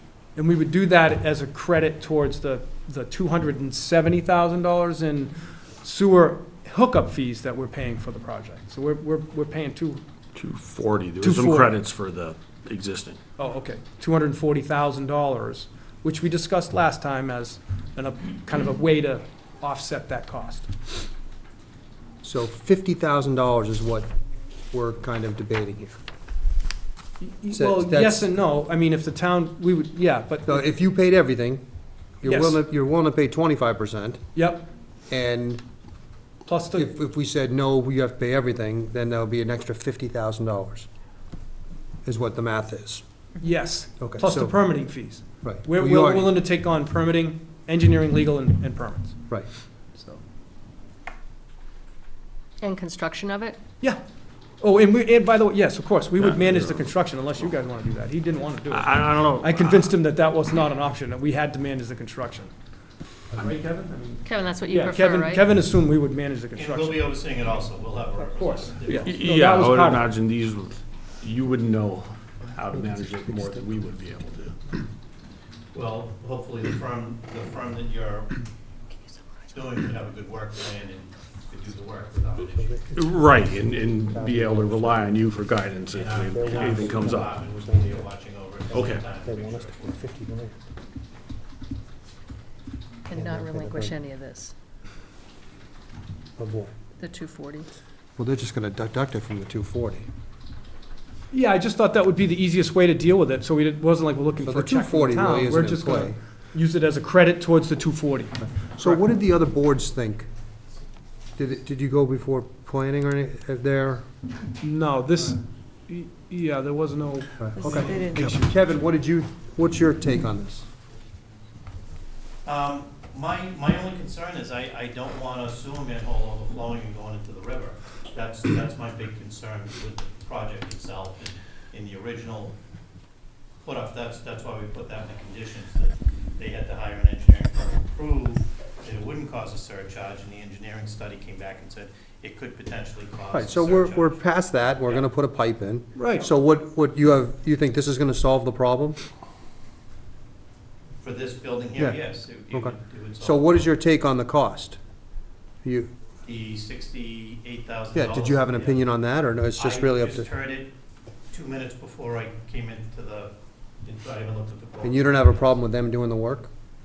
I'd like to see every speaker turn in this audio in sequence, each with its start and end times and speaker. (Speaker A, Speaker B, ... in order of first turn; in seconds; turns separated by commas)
Speaker A: 0.3-10.0, Speaker B: 10.3-13.2, Speaker A: 11.2-11.7, Speaker A: 13.4-20.7, Speaker C: 22.2-24.1, Speaker C: 24.7-26.0, Speaker A: 27.2-30.6, Speaker C: 27.5-28.3, Speaker C: 30.4-31.6, Speaker C: 32.2-34.2, Speaker A: 32.2-32.6, Speaker A: 34.3-34.7, Speaker C: 35.1-35.6, Speaker A: 36.5-36.9, Speaker C: 36.7-40.9, Speaker C: 42.0-43.0, Speaker A: 43.4-49.4, Speaker C: 44.0-44.5, Speaker C: 45.4-46.3, Speaker A: 49.9-50.2, Speaker D: 52.6-53.6, Speaker A: 54.6-62.5, Speaker B: 58.7-59.9, Speaker A: 63.3-67.1, Speaker D: 64.3-65.4, Speaker E: 66.6-69.2, Speaker A: 68.0-70.0, Speaker B: 69.0-74.5, Speaker C: 73.3-73.6, Speaker E: 75.7-78.4, Speaker E: 79.5-82.8, Speaker C: 82.4-85.2, Speaker B: 82.9-87.4, Speaker E: 85.9-90.0, Speaker C: 86.3-88.0, Speaker B: 88.7-89.0, Speaker C: 89.1-90.5, Speaker D: 93.1-94.5, Speaker C: 93.1-94.0, Speaker C: 96.4-96.7, Speaker D: 97.0-97.7, Speaker C: 98.2-100.1, Speaker A: 101.3-109.0, Speaker C: 104.4-106.2, Speaker C: 108.8-110.3, Speaker C: 111.4-114.1, Speaker A: 114.6-118.5, Speaker C: 117.4-120.7, Speaker E: 122.4-132.5, Speaker E: 133.6-144.2, Speaker C: 143.3-149.0, Speaker A: 145.9-146.3, Speaker E: 151.0-153.7, Speaker C: 151.8-154.8, Speaker C: 155.6-155.9, Speaker E: 156.2-158.9, Speaker C: 157.9-160.3, Speaker E: 159.6-160.7, Speaker E: 161.3-163.3, Speaker E: 163.8-165.5, Speaker C: 164.8-166.5